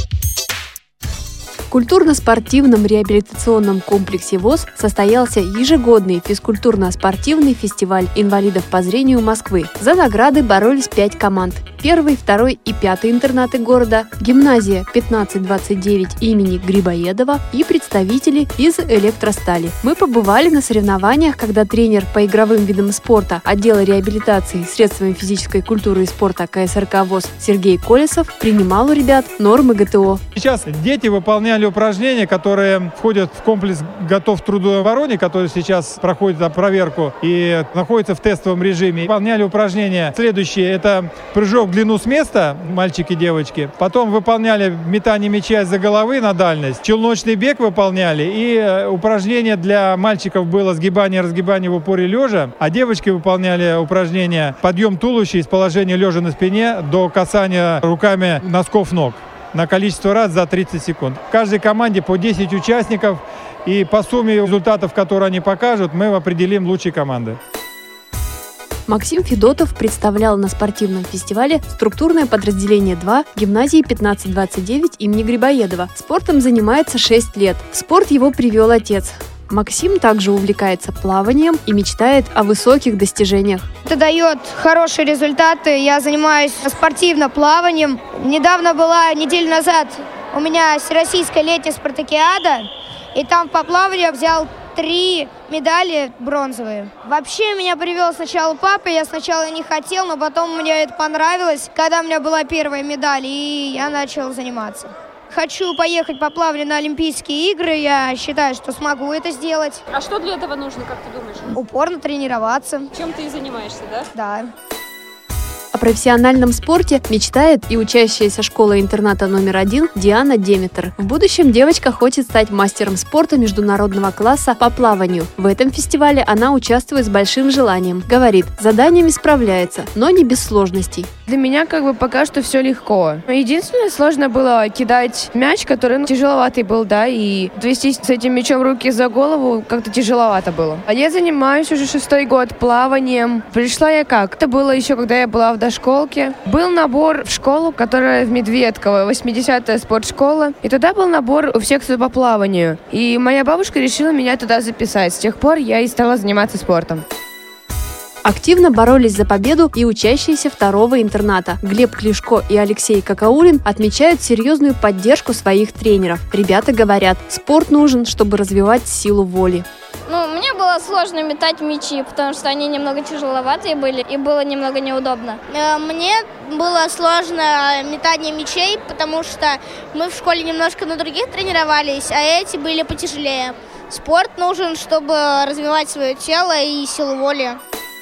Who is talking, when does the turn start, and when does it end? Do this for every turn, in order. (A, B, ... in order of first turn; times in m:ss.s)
0:01.7-0:30.2 A
0:30.4-1:07.4 B
1:08.9-1:23.6 A
1:23.8-1:49.8 C
1:49.9-1:51.5 D
1:51.6-1:52.9 C
1:53.0-1:54.1 D
1:54.1-1:54.5 C
1:55.7-2:11.1 A
2:11.3-2:37.0 E
2:38.2-2:49.7 A
2:50.1-2:55.4 F
2:55.5-3:07.6 G